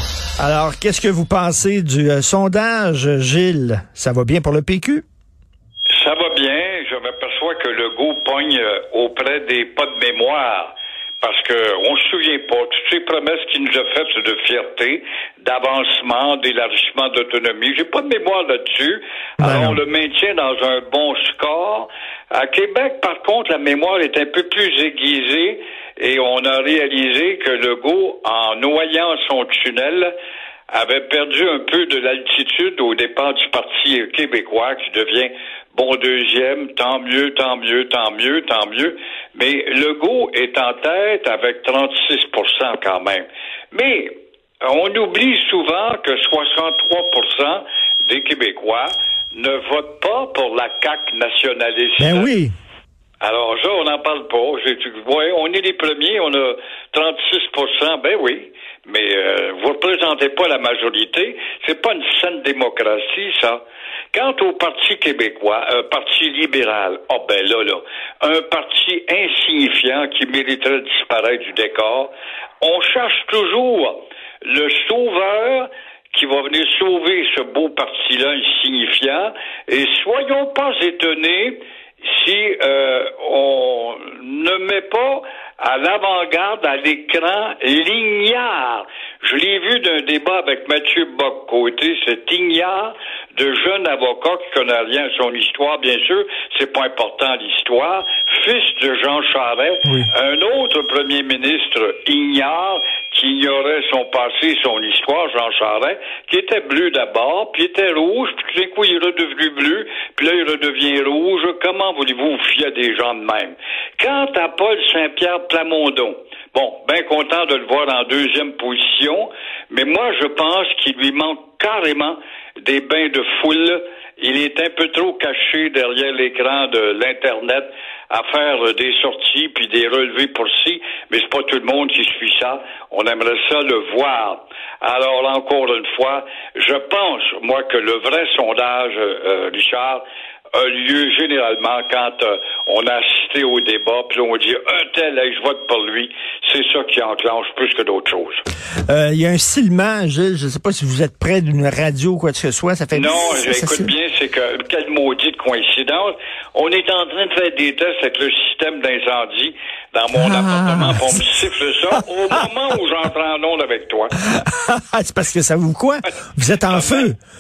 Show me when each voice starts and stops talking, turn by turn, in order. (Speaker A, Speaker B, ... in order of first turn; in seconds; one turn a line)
Speaker A: 0.4-5.0
Speaker B: 5.9-30.1
Speaker A: 19.4-19.8
Speaker B: 30.7-52.3
Speaker A: 52.0-52.5
Speaker B: 53.2-63.6
Speaker B: 64.1-140.0
Speaker B: 140.6-148.4
Speaker A: 148.9-153.9
Speaker B: 152.9-164.2
Speaker A: 160.2-161.2
Speaker A: 164.3-167.2
Speaker B: 166.7-167.1